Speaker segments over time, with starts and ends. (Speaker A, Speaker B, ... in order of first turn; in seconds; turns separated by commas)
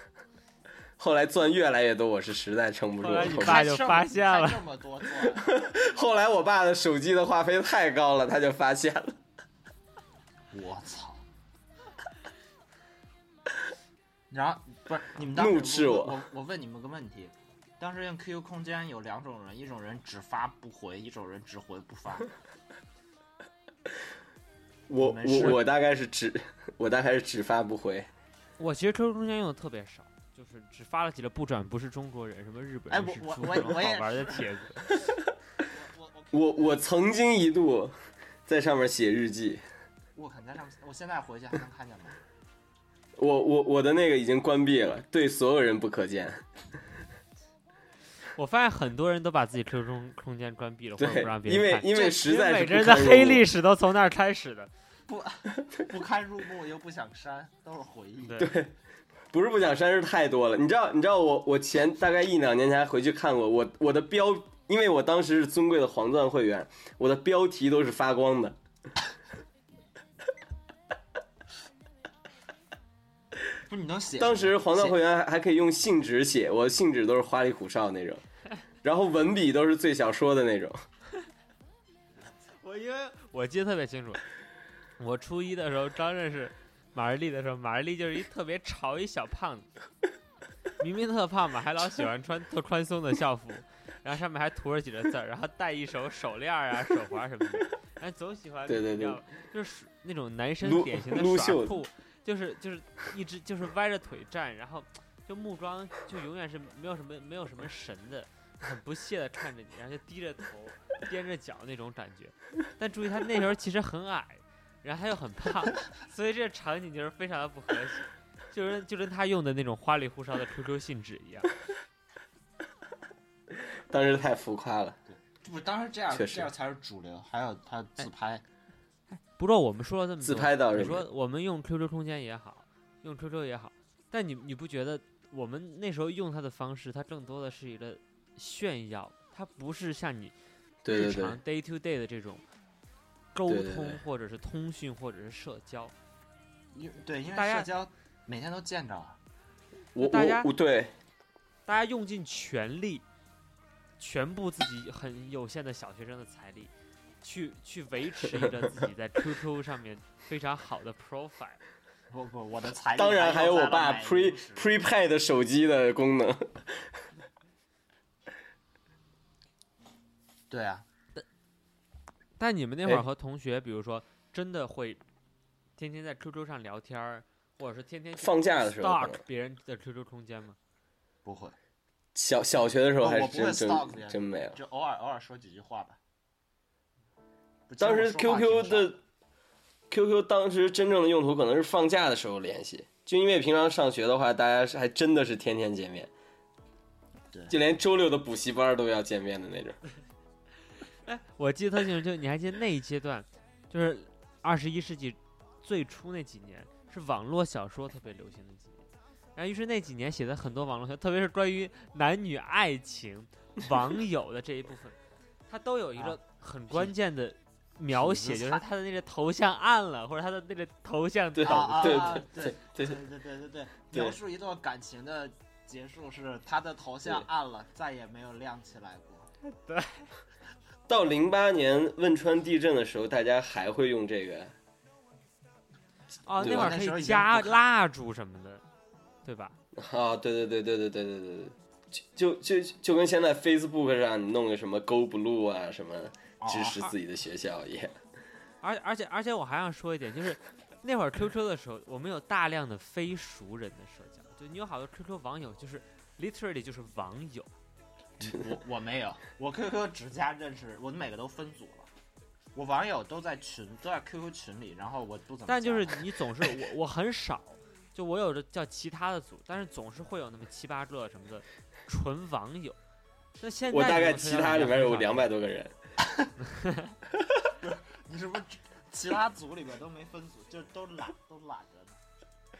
Speaker A: 1.0-3.6, Speaker B: 3.0-4.6, Speaker C: 3.2-5.6, Speaker A: 5.3-9.2, Speaker C: 10.5-11.2, Speaker C: 14.3-22.3, Speaker A: 15.3-16.2, Speaker A: 24.9-28.1, Speaker C: 25.0-25.6, Speaker B: 28.6-34.9, Speaker C: 32.9-34.6, Speaker C: 35.6-36.8, Speaker A: 36.3-38.0, Speaker A: 38.5-39.6, Speaker C: 40.2-42.2, Speaker A: 43.2-46.4, Speaker B: 48.4-54.7, Speaker A: 51.0-53.5, Speaker C: 55.1-58.5, Speaker B: 58.2-58.5, Speaker A: 58.4-58.7, Speaker A: 59.3-68.6, Speaker C: 73.7-75.0, Speaker A: 74.2-78.2, Speaker A: 78.8-80.8, Speaker B: 82.6-84.2, Speaker B: 85.0-89.7, Speaker B: 90.8-121.5, Speaker A: 98.7-99.2, Speaker A: 100.6-101.7, Speaker A: 123.5-125.0, Speaker C: 125.1-128.4, Speaker A: 126.1-126.5, Speaker B: 129.1-140.3, Speaker A: 130.2-131.1, Speaker A: 140.8-141.4, Speaker B: 140.9-142.4, Speaker B: 143.3-145.9, Speaker A: 143.5-144.0, Speaker C: 146.7-149.2, Speaker B: 147.3-147.7, Speaker A: 149.9-150.9, Speaker B: 150.0-150.5, Speaker B: 151.7-153.1, Speaker B: 154.0-161.6, Speaker C: 162.1-164.7, Speaker A: 162.9-166.9, Speaker C: 170.5-170.9, Speaker B: 172.4-175.0, Speaker B: 175.8-180.6, Speaker A: 178.2-179.2, Speaker C: 181.2-181.6, Speaker A: 182.2-184.6, Speaker C: 183.0-186.0, Speaker C: 187.7-189.0, Speaker A: 187.8-189.0, Speaker A: 189.9-196.1, Speaker A: 197.5-199.8, Speaker B: 201.1-208.8, Speaker B: 209.3-215.0, Speaker B: 215.5-222.2, Speaker C: 217.9-218.7, Speaker A: 221.3-223.0, Speaker C: 221.4-229.3, Speaker B: 229.4-230.1, Speaker A: 230.9-234.5, Speaker B: 236.2-238.6, Speaker C: 236.4-237.6, Speaker A: 236.4-236.7, Speaker B: 239.2-239.6, Speaker A: 239.8-247.9, Speaker C: 246.4-246.9, Speaker B: 248.6-257.5, Speaker C: 258.2-261.9, Speaker C: 262.6-266.0, Speaker B: 265.5-272.8, Speaker B: 273.4-275.3, Speaker A: 273.7-275.7, Speaker B: 276.5-276.9, Speaker C: 277.6-282.0